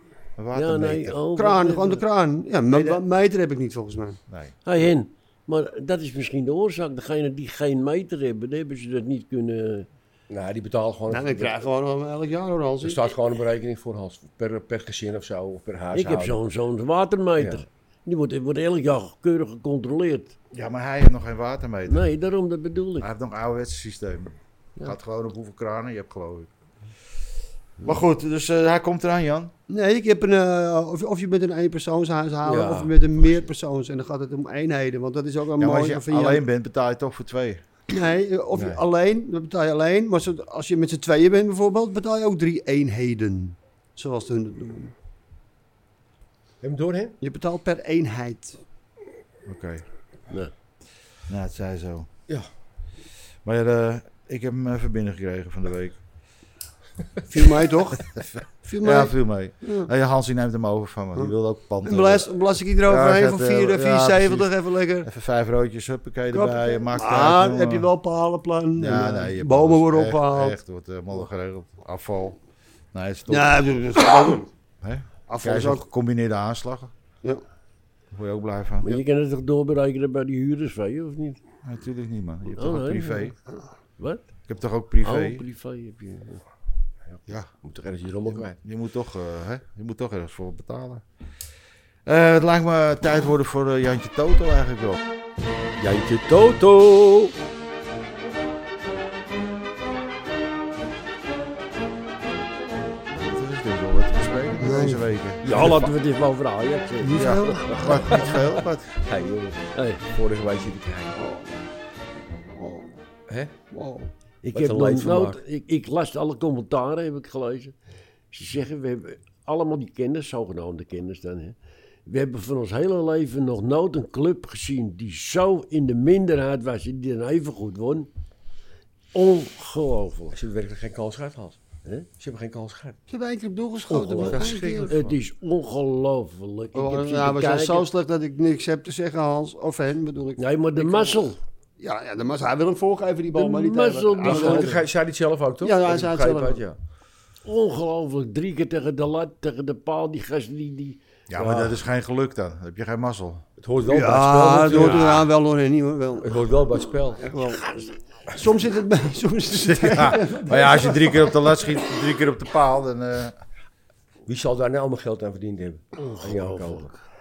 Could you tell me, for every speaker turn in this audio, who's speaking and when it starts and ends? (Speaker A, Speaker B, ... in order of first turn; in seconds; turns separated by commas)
Speaker A: 0.4-1.2, Speaker B: 0.5-2.0, Speaker C: 1.4-4.2, Speaker A: 2.7-3.0, Speaker A: 4.3-4.6, Speaker B: 4.6-9.9, Speaker D: 10.3-11.5, Speaker C: 11.1-13.0, Speaker D: 12.8-16.4, Speaker B: 15.9-20.3, Speaker D: 17.4-17.6, Speaker A: 20.5-22.0, Speaker B: 21.9-23.1, Speaker A: 23.0-26.5, Speaker A: 27.8-29.5, Speaker C: 29.7-36.4, Speaker D: 32.4-32.9, Speaker A: 35.6-37.6, Speaker C: 37.9-44.9, Speaker D: 38.5-38.8, Speaker D: 46.6-47.1, Speaker C: 47.2-48.6, Speaker A: 49.5-49.8, Speaker A: 51.3-52.1, Speaker A: 53.4-56.0, Speaker C: 57.3-59.9, Speaker A: 58.1-62.3, Speaker C: 61.8-65.1, Speaker A: 62.8-64.5, Speaker A: 65.0-67.9, Speaker C: 66.3-70.6, Speaker A: 68.8-72.4, Speaker A: 72.9-73.5, Speaker C: 73.3-74.5, Speaker A: 74.8-76.9, Speaker C: 75.3-75.8, Speaker A: 78.1-79.0, Speaker B: 78.8-81.4, Speaker A: 81.6-83.3, Speaker B: 82.5-83.3, Speaker B: 84.0-84.2, Speaker A: 84.5-85.4, Speaker B: 85.0-86.4, Speaker D: 87.1-88.6, Speaker A: 88.3-91.0, Speaker A: 92.0-95.0, Speaker D: 95.8-97.3, Speaker A: 103.1-105.5, Speaker C: 104.6-105.0, Speaker D: 105.4-105.9, Speaker B: 105.4-108.2, Speaker C: 107.0-107.7, Speaker A: 107.2-108.9, Speaker D: 107.8-111.2, Speaker B: 109.7-110.0, Speaker C: 111.2-111.5, Speaker C: 112.5-112.9, Speaker C: 113.7-114.1, Speaker B: 114.4-117.7, Speaker D: 114.5-115.4, Speaker B: 118.3-128.1, Speaker B: 129.1-130.4, Speaker D: 130.3-131.6, Speaker D: 132.2-133.0, Speaker C: 133.1-134.9, Speaker D: 133.9-134.6, Speaker A: 134.2-135.1, Speaker B: 134.9-137.9, Speaker C: 136.7-141.2, Speaker B: 140.4-141.4, Speaker C: 141.8-144.8, Speaker B: 143.3-144.8, Speaker D: 144.2-146.8, Speaker C: 145.6-146.6, Speaker B: 147.4-151.0, Speaker A: 151.3-153.4, Speaker D: 151.4-151.8, Speaker D: 153.6-155.3, Speaker C: 153.8-156.3, Speaker D: 156.2-157.2, Speaker C: 157.2-157.7, Speaker B: 157.4-157.9, Speaker C: 158.3-161.3, Speaker A: 159.5-163.3, Speaker D: 164.3-166.9, Speaker B: 165.9-166.9